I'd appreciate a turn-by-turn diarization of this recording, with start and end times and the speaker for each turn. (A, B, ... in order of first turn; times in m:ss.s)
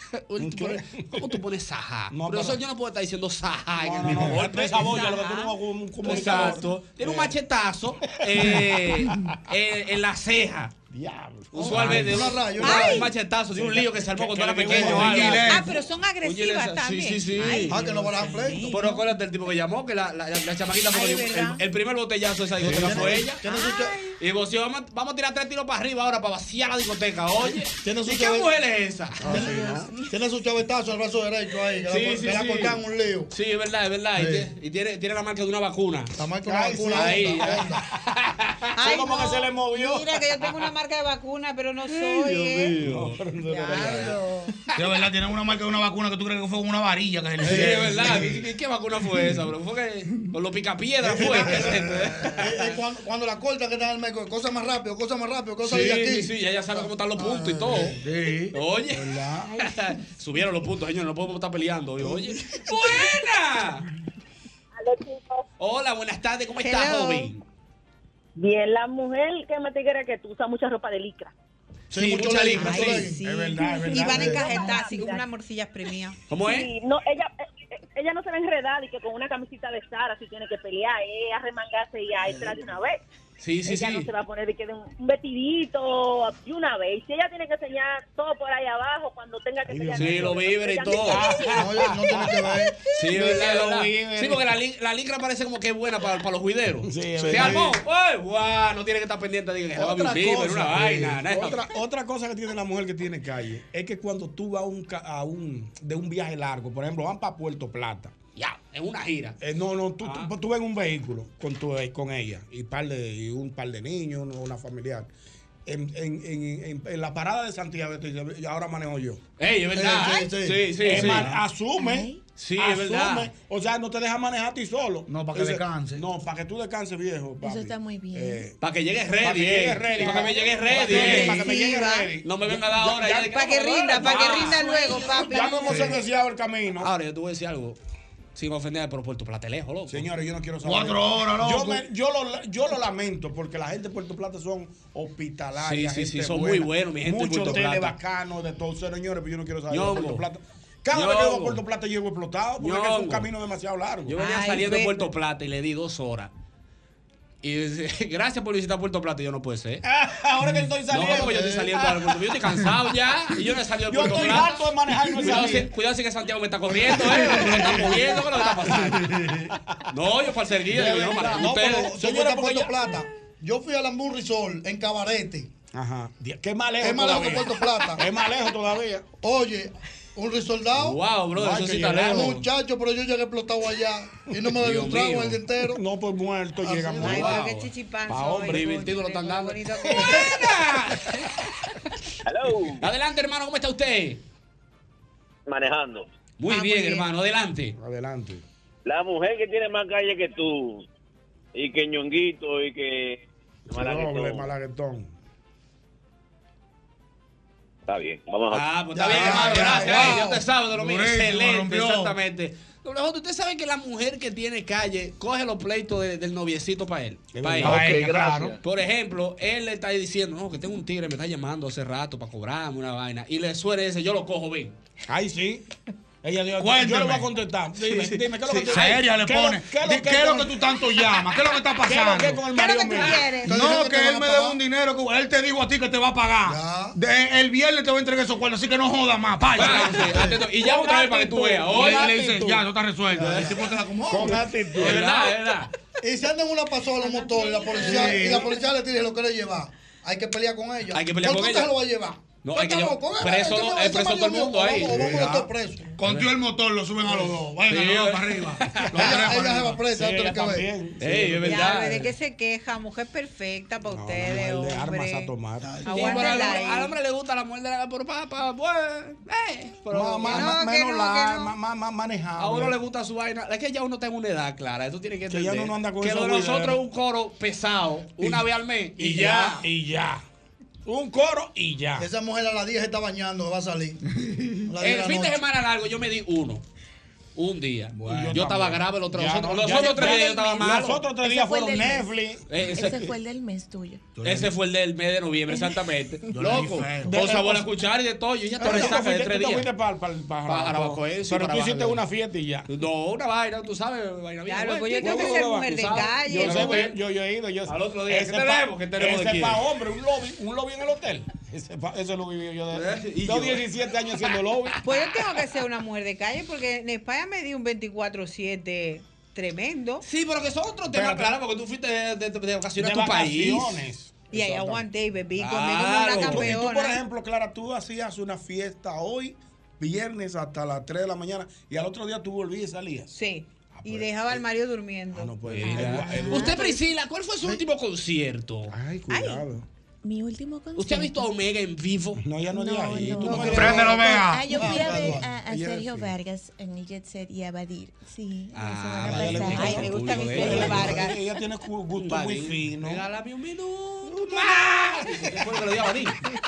0:00.2-0:05.1 A
0:00.4-0:01.3 B
0:02.1-0:02.6 B
0:03.8-0:07.3 B
0:04.8-0:05.5 C
0:06.0-0:10.7 A
0:06.1-0:06.4 C
0:08.0-0:09.4 B
0:10.9-0:12.3 B
0:11.5-0:15.7 A
0:11.6-0:13.1 D
0:12.6-0:13.0 C
0:13.5-0:15.4 B
0:14.6-0:15.0 D
0:14.7-0:15.7 E
0:15.4-0:19.0 C
0:16.2-0:17.8 A
0:17.7-0:18.7 D
0:18.7-0:23.4 A
0:20.9-0:21.6 C
0:22.6-0:23.3 B
0:22.6-0:24.0 D
0:24.2-0:29.5 A
0:27.8-0:28.5 D
0:29.2-0:29.9 B
0:29.3-0:33.3 D
0:29.3-0:30.1 F
0:31.9-0:32.8 A
0:33.3-0:36.1 A
0:34.1-0:34.5 D
0:36.2-0:37.8 D
0:36.4-0:37.7 B
0:36.9-0:38.9 A
0:38.8-0:42.8 C
0:38.8-0:40.1 B
0:42.1-0:44.2 B
0:42.8-0:43.2 A
0:43.4-0:44.5 C
0:44.8-0:48.4 E
0:47.4-0:52.7 A
0:47.6-0:48.1 B
0:51.1-0:56.3 D
0:55.6-0:58.0 A
0:56.8-0:58.0 D
0:58.0-0:58.5 E
0:58.5-1:03.8 A
0:59.1-0:59.5 B
1:04.8-1:05.4 G
1:05.6-1:07.4 A
1:06.6-1:07.3 C
1:08.4-1:11.3 G
1:11.9-1:13.2 D
1:11.9-1:13.1 A
1:12.6-1:16.2 C
1:13.2-1:14.5 B
1:14.4-1:15.2 G
1:16.3-1:16.7 A
1:16.4-1:23.0 G
1:23.4-1:24.1 A
1:23.6-1:31.4 G
1:29.7-1:30.4 B
1:29.9-1:31.9 A
1:31.0-1:34.4 B
1:31.5-1:32.8 D
1:32.9-1:41.7 A
1:36.8-1:37.7 B
1:39.8-1:48.1 B
1:48.4-1:49.4 A
1:49.4-1:55.1 B
1:50.0-1:50.3 A
1:55.6-1:59.2 B
1:59.4-2:01.3 A
1:59.7-2:00.7 D
2:00.8-2:08.6 B
2:01.0-2:01.3 E
2:01.8-2:02.2 F
2:02.4-2:03.3 A
2:05.1-2:06.0 E
2:07.4-2:08.5 F
2:08.6-2:11.5 A
2:09.2-2:16.9 B
2:10.8-2:12.1 C
2:12.2-2:14.8 A
2:13.3-2:15.9 C
2:14.3-2:15.8 F
2:16.8-2:17.8 A
2:18.3-2:20.1 A
2:19.9-2:34.2 B
2:20.6-2:21.8 E
2:25.6-2:28.0 A
2:29.7-2:30.2 A
2:30.9-2:31.6 A
2:32.6-2:33.3 A
2:34.1-2:36.3 A
2:34.2-2:35.0 C
2:37.4-2:39.8 A
2:39.8-2:41.9 B
2:40.9-2:49.2 A
2:41.0-2:41.7 D
2:43.9-2:45.7 B
2:47.1-2:49.2 B
2:49.9-2:52.1 A
2:50.7-2:52.7 B
2:51.2-2:55.5 D
2:55.7-2:59.1 B
2:56.8-2:58.0 D
2:59.2-3:01.0 D
3:00.8-3:02.4 A
3:01.3-3:02.4 B
3:02.0-3:05.8 D
3:04.6-3:05.4 A
3:05.7-3:07.5 B
3:06.6-3:07.1 D
3:07.0-3:10.3 C
3:07.0-3:07.7 A
3:08.1-3:08.8 B
3:08.5-3:11.5 A
3:09.9-3:10.3 B
3:12.2-3:12.8 H
3:12.8-3:14.2 A
3:15.5-3:16.1 H
3:16.4-3:17.7 A
3:16.5-3:17.0 C
3:17.8-3:18.4 B
3:18.8-3:20.8 H
3:21.5-3:24.5 H
3:23.7-3:25.1 B
3:27.9-3:28.6 H
3:28.5-3:38.1 A
3:29.0-3:30.3 D
3:29.1-3:32.1 E
3:29.2-3:30.1 B
3:37.3-3:38.5 B
3:37.6-3:38.6 E
3:38.6-3:44.7 A
3:45.1-3:45.6 B
3:46.2-3:50.6 B
3:46.6-3:47.3 E
3:47.8-3:49.1 A
3:48.7-3:52.4 E
3:51.8-3:53.3 B
3:52.5-3:53.6 C
3:52.9-3:53.2 A
3:53.4-3:54.6 D
3:53.4-4:00.2 E
3:56.4-3:56.9 D
3:59.5-4:02.2 A
4:00.5-4:02.6 B
4:01.7-4:04.5 E
4:03.2-4:03.5 B
4:03.2-4:03.4 A
4:04.1-4:05.3 B
4:04.8-4:05.7 A
4:06.0-4:15.9 D
4:07.4-4:07.8 C
4:07.8-4:08.4 B
4:07.9-4:08.4 E
4:10.9-4:11.7 A
4:12.4-4:15.3 A
4:14.8-4:15.5 B
4:16.0-4:19.8 E
4:16.0-4:16.3 A
4:17.7-4:19.2 A
4:18.9-4:20.7 D
4:19.0-4:19.2 B
4:19.9-4:22.0 B
4:21.0-4:22.1 A
4:21.4-4:25.3 C
4:23.9-4:25.8 B
4:25.6-4:26.5 D
4:25.8-4:26.9 C
4:25.9-4:30.6 A
4:29.9-4:32.8 B
4:30.3-4:31.5 C
4:32.4-4:39.6 A
4:35.3-4:36.8 B
4:39.0-4:40.2 B
4:40.8-4:42.1 B
4:42.0-4:44.0 D
4:44.6-4:45.4 D
4:44.8-4:46.6 A
4:47.4-4:51.0 A
4:48.0-4:53.0 B
4:51.2-4:52.1 F
4:52.5-4:53.0 A
4:52.7-4:54.1 F
4:54.2-4:54.5 E
4:54.2-4:59.7 A
4:56.3-4:57.2 E
4:57.0-4:57.7 B
4:58.6-5:02.7 B
5:00.5-5:02.0 A
5:02.7-5:07.0 A
5:04.5-5:06.9 C
5:05.0-5:14.8 B
5:07.7-5:09.6 A
5:12.7-5:13.6 A
5:14.8-5:20.0 C
5:20.0-5:23.8 A
5:20.9-5:21.3 B
5:22.8-5:24.8 B
5:24.3-5:27.0 C
5:25.4-5:26.5 A
5:26.1-5:33.1 B
5:33.1-5:35.3 C
5:33.7-5:34.4 B
5:35.1-5:36.6 B
5:35.5-5:38.7 A
5:35.8-5:36.7 F
5:38.7-5:39.6 B
5:39.1-5:39.4 C
5:40.0-5:41.3 F
5:40.8-5:42.2 A
5:42.2-5:44.1 B
5:42.5-5:49.8 F
5:43.4-5:44.5 E
5:44.5-5:45.3 D
5:44.6-5:46.1 B
5:48.5-5:51.0 A
5:49.0-5:53.0 B
5:49.5-5:51.1 C
5:52.0-5:56.2 A
5:54.2-5:54.5 B